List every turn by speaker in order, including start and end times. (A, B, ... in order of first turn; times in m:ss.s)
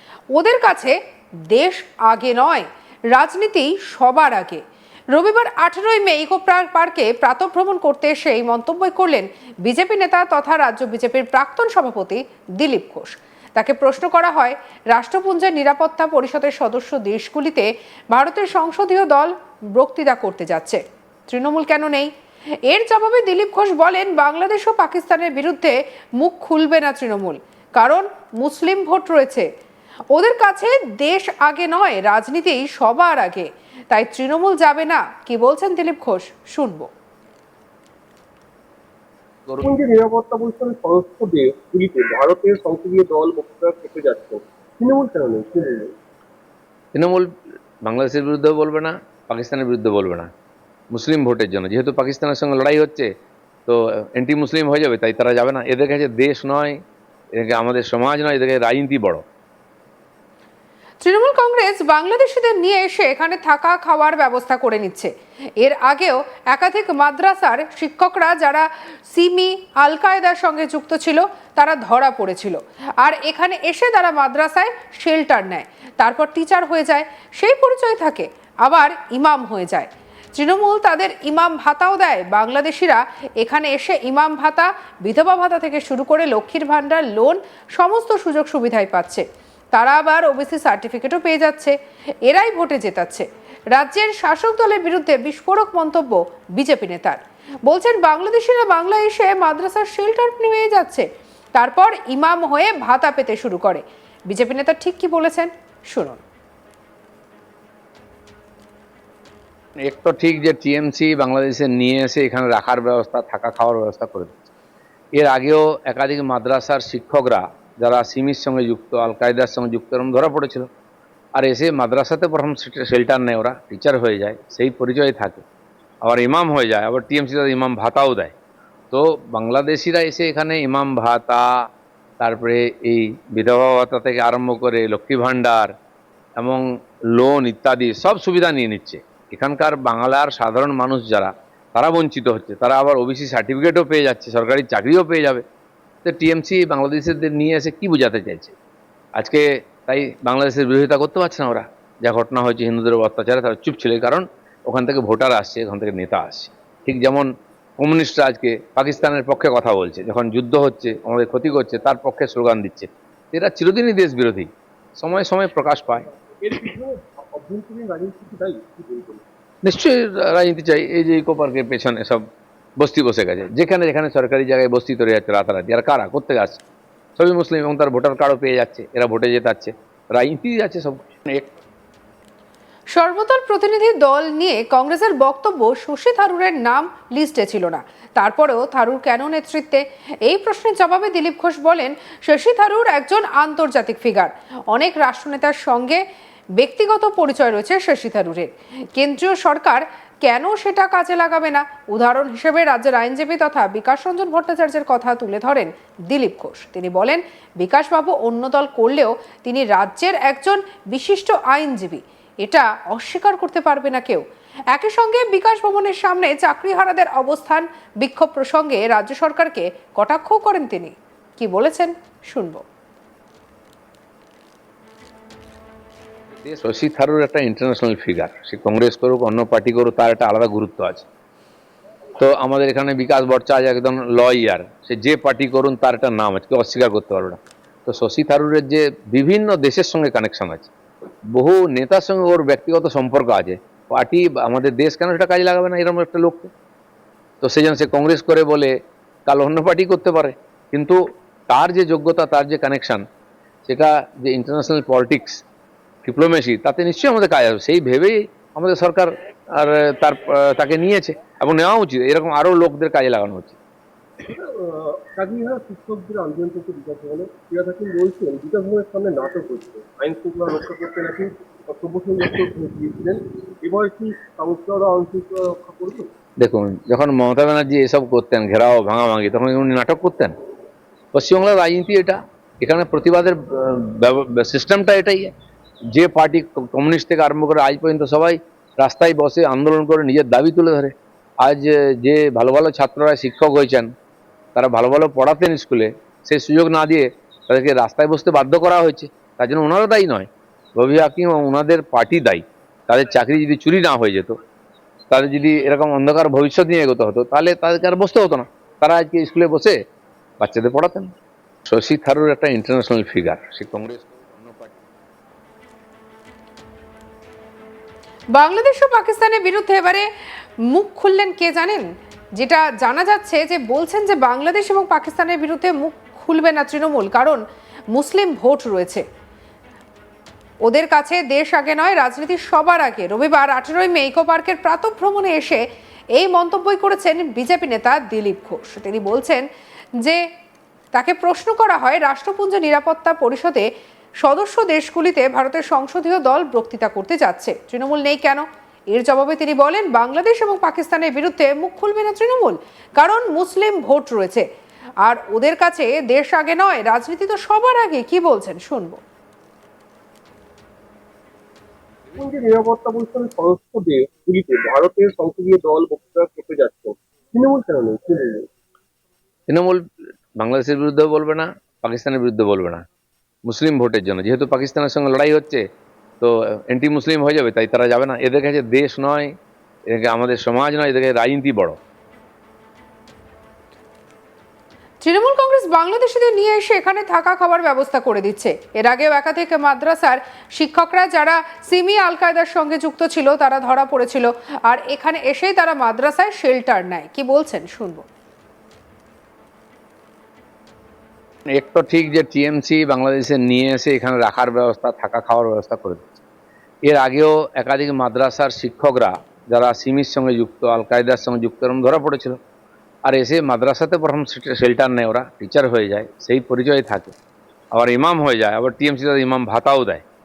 0:00.3-0:01.0 A
0:01.5-0:04.6 A
0:05.1-0:22.1 A
0:22.7-0:29.5 A
0:30.1-0:36.9 A
0:39.6-0:45.9 B
0:46.9-0:47.3 C
0:47.8-0:50.3 C
0:50.9-0:53.1 C
0:53.6-0:56.8 C
0:57.3-0:59.2 C
1:01.0-1:31.7 A
1:32.2-1:46.2 A
1:49.8-1:54.4 C
1:55.2-2:00.7 C
2:01.4-2:05.4 C
2:06.0-2:08.3 C
2:08.9-2:11.4 C
2:12.2-2:15.7 C
2:16.4-2:25.4 C
2:26.0-2:28.5 C
2:29.2-2:46.0 C
2:46.4-2:49.2 B
2:49.6-2:52.2 C
2:52.8-2:56.6 C
2:57.2-3:01.5 C
3:02.9-3:16.0 A
3:16.6-3:42.6 A
3:46.4-3:51.0 C
3:52.2-4:00.7 C
4:01.3-4:06.5 C
4:07.4-4:08.7 C
4:09.2-4:13.0 C
4:13.6-4:15.4 C
4:16.0-4:23.6 C
4:24.2-4:36.1 B
4:36.4-4:40.3 C
4:41.1-4:45.3 C
4:45.9-4:53.9 C
4:54.5-5:04.4 C
5:05.1-5:09.8 C
5:10.4-5:11.1 C
5:11.6-5:14.8 C
5:18.3-5:20.1 A
5:20.6-5:27.4 A
5:27.9-5:29.0 A
5:30.6-5:35.6 A
5:36.2-5:39.4 A
5:40.9-5:43.6 A
5:44.2-5:54.4 A
5:55.0-5:59.0 A
6:02.1-6:08.4 B
6:09.5-6:09.8 C
6:10.4-6:12.8 C
6:13.4-6:15.6 C
6:16.2-6:19.3 C
6:19.9-6:21.8 C
6:25.0-6:38.0 A
6:41.5-6:46.2 C
6:46.8-6:52.4 C
6:53.1-6:57.1 C
6:57.7-7:00.0 C